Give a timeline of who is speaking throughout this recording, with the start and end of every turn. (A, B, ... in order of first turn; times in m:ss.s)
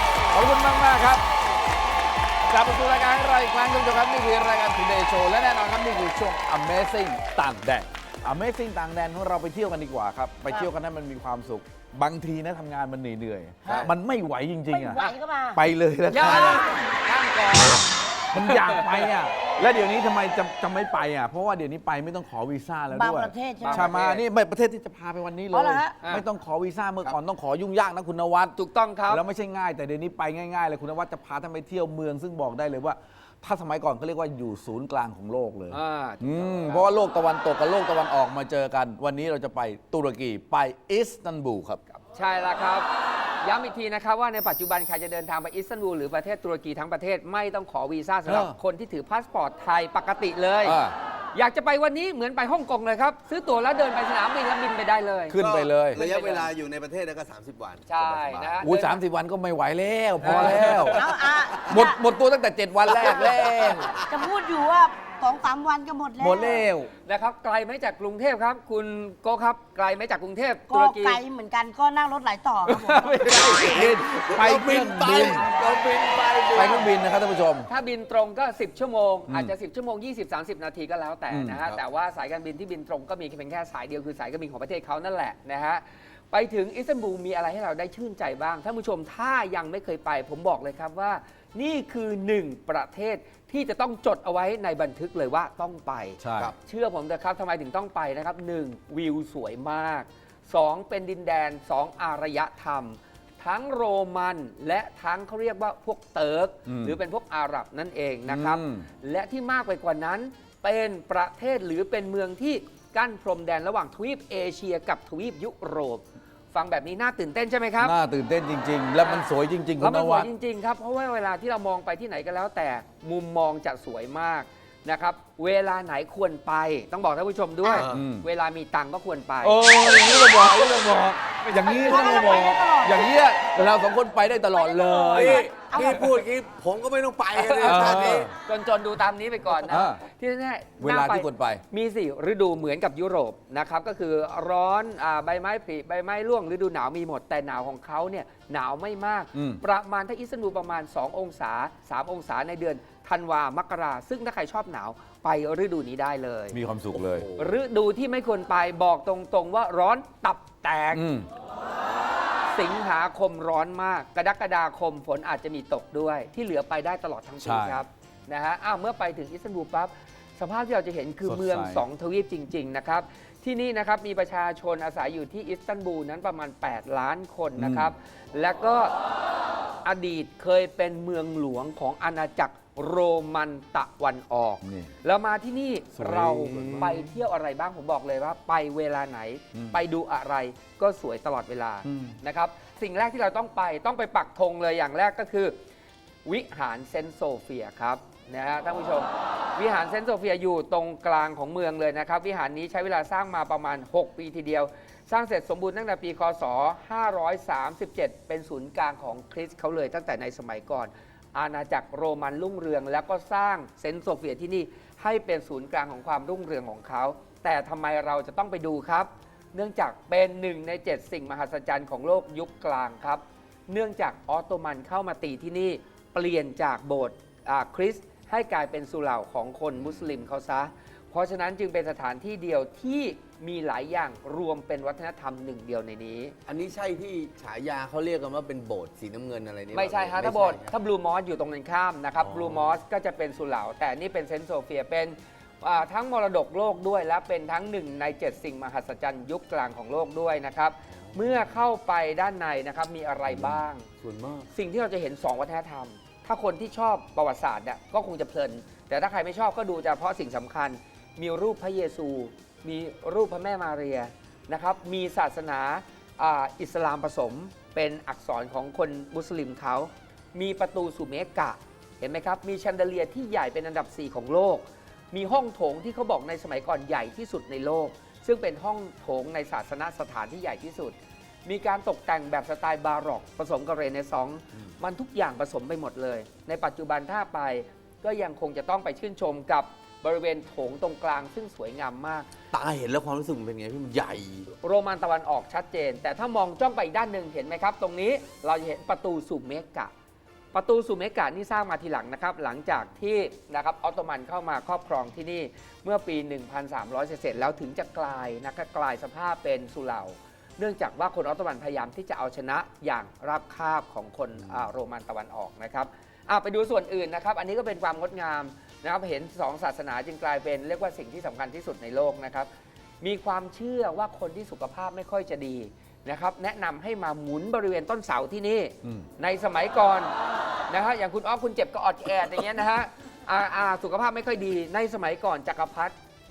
0:00.3-0:01.2 A
0:02.4-0:16.7 A
0:14.7-0:15.6 B
0:16.1-0:18.8 C
0:16.3-0:16.6 B
0:18.3-0:28.6 A
0:22.9-0:23.9 B
0:23.6-0:24.2 C
0:25.5-0:26.0 B
0:26.0-0:26.2 C
0:28.6-0:29.2 C
0:29.1-0:41.8 A
0:35.7-0:36.9 C
0:41.9-0:42.9 C
0:43.4-0:50.8 C
0:48.2-0:48.6 A
0:50.6-0:50.9 A
0:51.3-0:55.4 C
0:55.3-0:56.0 A
0:55.3-0:58.6 D
0:55.9-0:56.5 C
0:57.9-0:59.0 C
0:58.6-1:01.1 A
1:00.2-1:01.0 C
1:00.2-1:00.7 D
1:00.7-1:02.0 B
1:01.6-1:03.9 A
1:02.9-1:04.2 D
1:04.1-1:06.6 B
1:06.2-1:06.9 A
1:07.0-1:11.2 C
1:10.7-1:13.3 B
1:12.7-1:15.5 A
1:13.3-1:16.9 D
1:16.5-1:17.7 A
1:17.7-1:57.9 C
1:19.3-1:19.5 A
1:21.3-1:21.8 A
1:36.2-1:36.5 A
1:46.6-1:47.0 A
1:48.3-1:48.9 A
1:57.8-2:00.3 A
1:59.8-2:09.7 C
2:07.7-2:08.0 D
2:07.8-2:08.3 A
2:09.4-2:15.5 A
2:11.6-2:13.1 B
2:14.6-2:16.1 B
2:15.1-2:18.3 D
2:17.4-2:36.6 C
2:17.6-2:18.3 A
2:19.6-2:20.0 A
2:20.8-2:21.6 A
2:29.3-2:29.6 A
2:36.5-2:37.3 A
2:36.9-2:37.6 D
2:37.4-2:41.0 C
2:40.9-2:41.3 A
2:42.5-2:58.9 C
2:47.4-2:47.8 A
2:51.2-2:51.8 A
2:57.6-2:57.9 A
2:59.8-3:15.6 C
3:04.6-3:04.9 A
3:06.0-3:06.9 A
3:06.1-3:07.0 D
3:09.5-3:09.8 A
3:11.8-3:12.2 A
3:16.2-3:56.3 C
3:56.5-4:00.7 D
3:59.7-4:13.9 C
4:02.2-4:02.8 D
4:10.9-4:11.6 D
4:14.0-4:14.5 D
4:14.5-4:52.3 C
4:52.5-4:54.5 D
4:54.6-4:59.9 C
5:00.5-5:22.5 C
5:23.0-5:30.1 C
5:30.7-5:35.9 C